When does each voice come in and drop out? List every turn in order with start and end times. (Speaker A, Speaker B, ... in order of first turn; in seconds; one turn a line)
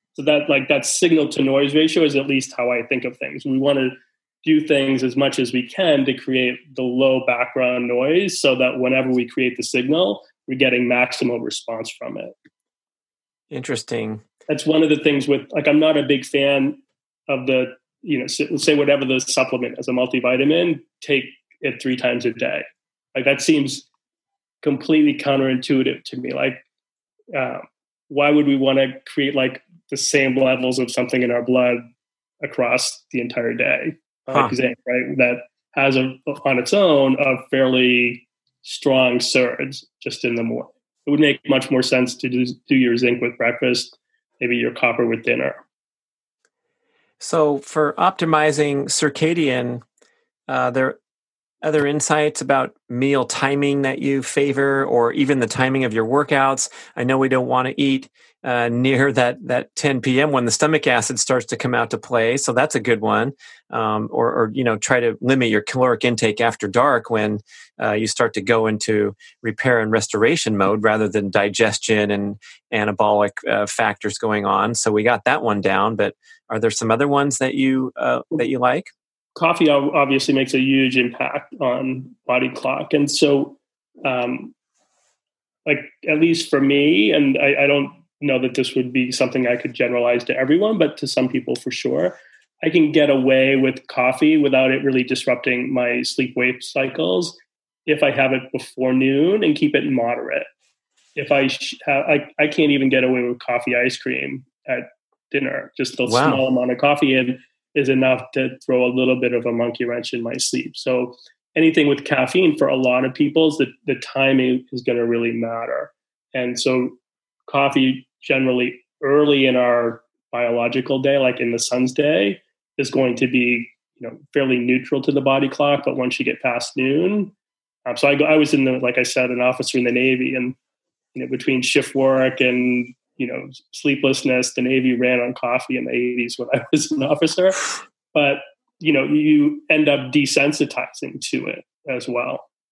Speaker A: 0.1-12.3
Speaker B: 13.5-14.2
Speaker A: 14.5-22.6
Speaker A: 23.1-23.9
Speaker A: 24.6-26.6
Speaker A: 27.3-31.8
Speaker A: 32.4-45.6
Speaker B: 47.2-49.8
Speaker B: 50.5-51.0
Speaker B: 51.6-78.9
Speaker A: 79.3-84.5
Speaker A: 85.7-100.5
Speaker A: 101.2-127.3
Speaker B: 106.1-106.4
Speaker A: 127.9-130.6
Speaker A: 131.1-142.5